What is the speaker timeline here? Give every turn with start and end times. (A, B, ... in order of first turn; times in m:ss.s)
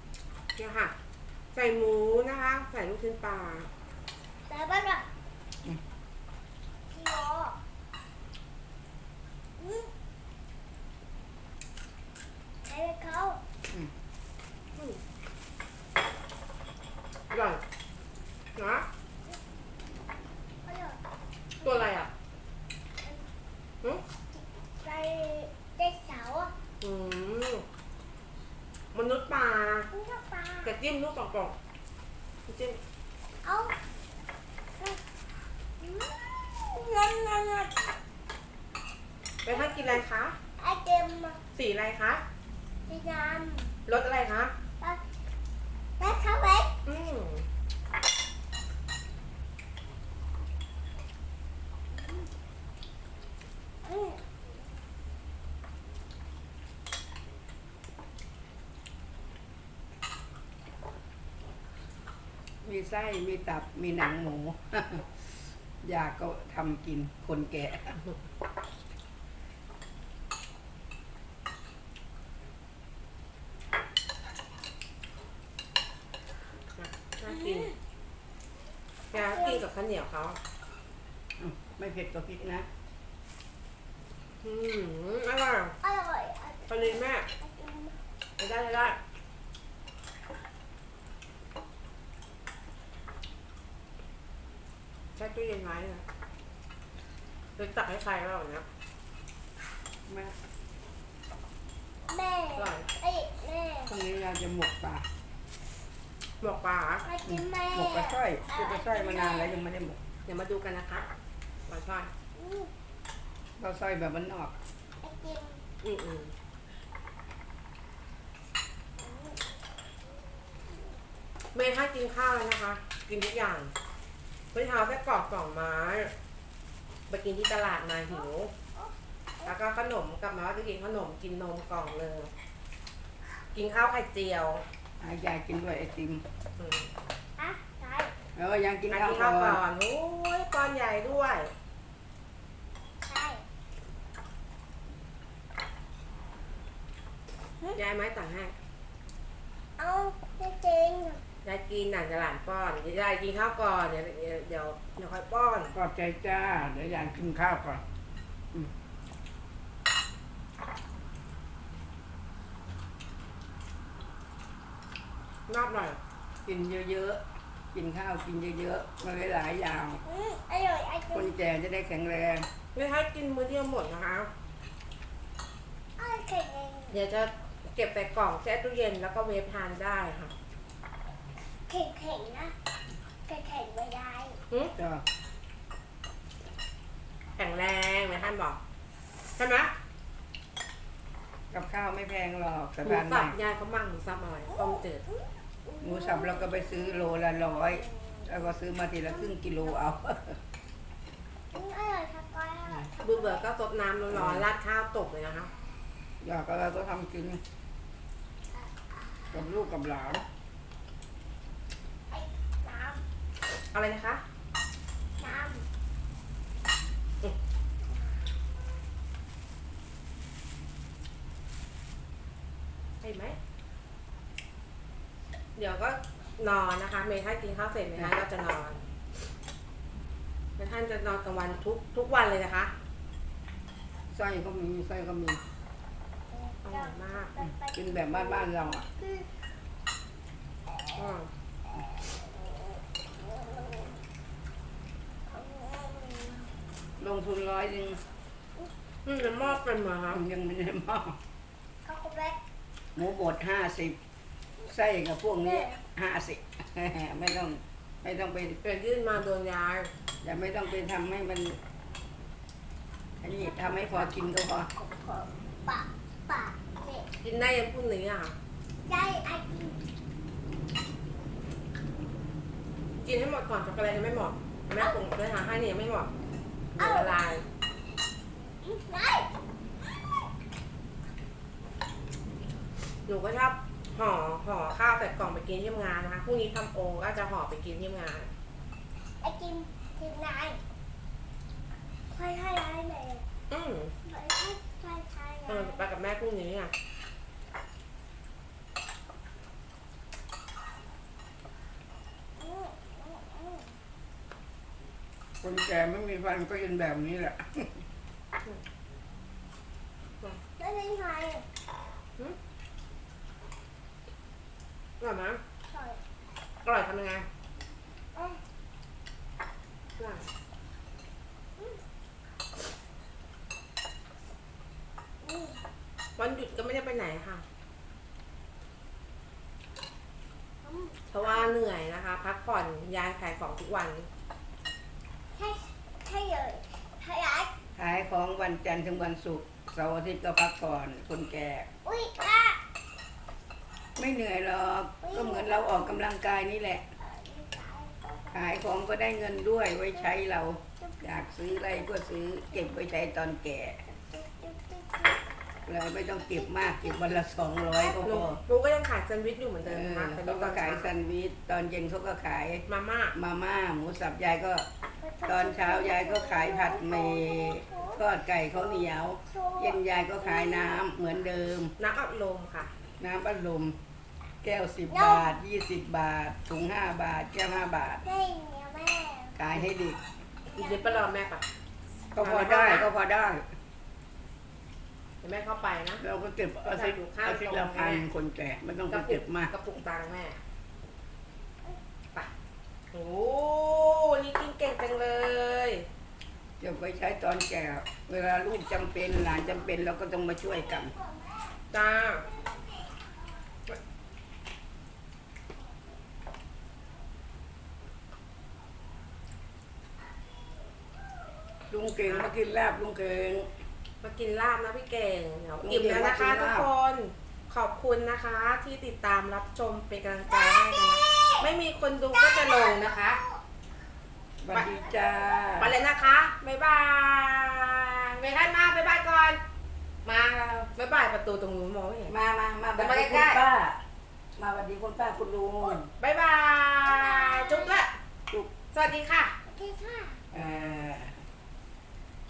0:00.5-0:00.9 A
0:01.5-0:03.7 A
0:04.5-0:05.0 B
0:06.9-0:07.6 B
0:09.6-0:09.9 B
0:12.6-0:13.4 B
0:14.8-0:15.0 A
0:17.3-0:17.6 A
0:18.6-0:18.9 A
0:20.6-0:21.0 B
0:21.6-0:22.1 A
0:24.3-0:26.5 B
0:26.8-0:27.6 A
0:28.9-0:29.9 A
0:29.9-0:30.8 B
0:30.6-0:31.6 A
0:32.5-0:32.8 A
0:33.4-0:33.7 B
0:35.8-0:37.9 B
0:39.4-0:40.4 A
0:39.5-0:39.9 B
0:40.6-0:41.4 B
0:41.5-0:42.2 A
0:42.9-0:43.7 B
0:43.9-0:44.5 A
0:46.0-0:46.7 B
0:46.8-0:47.4 A
0:51.9-0:52.3 B
0:53.8-0:54.4 B
1:02.6-1:05.3 C
1:05.8-1:08.0 C
1:16.7-1:17.7 A
1:17.3-1:17.8 B
1:19.1-1:19.6 B
1:19.1-1:20.4 A
1:21.4-1:22.7 C
1:24.4-1:25.8 A
1:25.8-1:28.0 B
1:26.7-1:27.3 A
1:28.4-1:29.0 A
1:35.2-1:36.0 A
1:37.6-1:38.6 A
1:40.1-1:40.3 C
1:42.1-1:43.9 B
1:42.6-1:42.9 A
1:43.9-1:45.1 C
1:46.4-1:47.0 A
1:47.0-1:49.6 B
1:47.2-1:50.0 C
1:50.2-1:51.1 A
1:51.7-1:52.1 A
1:52.4-1:52.7 B
1:53.6-1:54.5 C
1:55.0-1:55.6 B
1:55.8-1:56.3 A
1:59.0-1:59.5 B
2:01.5-2:03.7 A
2:04.5-2:06.1 A
2:07.1-2:08.5 A
2:08.7-2:09.5 B
2:09.4-2:12.3 A
2:13.5-2:14.6 A
2:15.0-2:16.2 C
2:16.6-2:16.9 A
2:17.4-2:18.1 B
2:18.4-2:19.6 C
2:18.9-2:21.5 A
2:23.0-2:23.4 B
2:27.7-2:28.5 A
2:29.8-2:31.2 B
2:31.4-2:35.7 A
2:35.7-2:37.8 C
2:45.5-2:46.0 A
2:46.4-2:47.2 C
2:47.7-2:50.0 C
2:50.0-2:51.3 B
2:51.1-2:52.5 C
2:52.7-2:54.3 A
2:56.0-2:57.0 B
2:56.9-3:00.3 A
3:01.7-3:02.5 B
3:03.3-3:04.4 B
3:04.8-3:05.0 C
3:07.4-3:08.6 A
3:09.4-3:09.7 A
3:11.5-3:13.4 C
3:12.8-3:15.0 A
3:14.5-3:18.4 B
3:15.8-3:20.4 C
3:19.0-3:19.7 B
3:21.5-3:23.4 B
3:23.0-3:25.5 A
3:24.1-3:24.5 C
3:26.2-3:27.4 C
3:28.5-3:29.5 B
3:29.3-3:30.2 C
3:32.1-3:33.0 B
3:33.7-3:34.2 A
3:35.2-3:35.6 B
3:37.8-3:38.2 B
3:43.0-3:43.4 A
3:45.6-3:48.8 A
3:50.6-3:52.7 A
3:54.1-3:55.4 C
3:56.3-3:59.3 B
3:56.6-3:57.3 A
3:57.4-3:58.9 C
4:00.9-4:01.3 A
4:02.2-4:04.0 B
4:05.3-4:06.5 B
4:07.0-4:08.0 C
4:09.0-4:10.2 A
4:10.1-4:11.2 C
4:11.8-4:12.4 B
4:12.9-4:14.0 C
4:14.6-4:18.6 C
4:15.4-4:15.8 B
4:18.6-4:19.9 A
4:20.2-4:21.6 C
4:23.2-4:24.7 C
4:23.4-4:24.1 B
4:24.7-4:27.1 B
4:27.2-4:28.3 A
4:28.8-4:29.8 B
4:33.0-4:36.1 A
4:36.8-4:37.4 A
4:36.8-4:37.2 B
4:38.6-4:39.3 B
4:43.1-4:48.3 A
4:49.2-4:50.6 B
4:52.1-4:53.2 B
4:53.5-4:53.9 A
4:54.0-4:55.9 B
4:55.5-4:56.7 A
5:02.4-5:03.8 B
5:05.4-5:07.7 C
5:10.6-5:11.4 B
5:15.0-5:15.4 A
5:15.7-5:16.0 B
5:16.6-5:17.2 A
5:18.1-5:18.4 B
5:20.0-5:20.2 A
5:25.2-5:25.6 B
5:26.2-5:27.4 A
5:30.6-5:31.5 B
5:31.1-5:34.1 A
5:35.3-5:37.5 B
5:37.8-5:41.7 C
5:41.8-5:42.6 B
5:44.0-5:46.9 C
5:45.0-5:45.9 B
5:47.0-5:48.5 B
5:48.3-5:53.8 C
5:49.9-5:50.2 B
5:50.8-5:51.9 B
5:52.5-5:52.8 B
5:54.0-5:55.4 B
5:55.7-5:58.4 C
5:56.0-5:58.2 B
5:58.0-6:00.9 A
5:59.6-6:04.7 C
6:02.7-6:03.2 A
6:05.0-6:10.9 B
6:05.2-6:11.7 C
6:11.8-6:12.7 A
6:13.0-6:13.7 C
6:14.4-6:18.0 C
6:14.9-6:15.4 B
6:18.0-6:19.4 B
6:19.4-6:20.0 C
6:20.5-6:21.1 B
6:20.5-6:21.4 A
6:22.1-6:23.4 C
6:22.2-6:22.9 A
6:25.2-6:26.0 A
6:26.0-6:29.5 C
6:26.6-6:28.0 A
6:28.9-6:30.4 A
6:32.9-6:35.8 A
6:36.6-6:40.9 C
6:40.7-6:41.5 B
6:41.7-6:42.2 A
6:42.2-6:43.1 B
6:51.7-6:53.5 C
6:52.0-6:52.3 A
6:54.0-7:03.2 A
6:55.6-6:56.7 C
7:00.6-7:01.4 B
7:02.2-7:03.4 B
7:04.4-7:05.7 C
7:04.6-7:05.4 B
7:05.6-7:09.4 A
7:10.0-7:12.1 A
7:12.1-7:13.8 C
7:12.7-7:13.5 A
7:14.4-7:15.9 C
7:16.0-7:17.9 A
7:16.8-7:17.8 B
7:18.7-7:19.3 A
7:19.4-7:20.2 B
7:20.3-7:21.2 C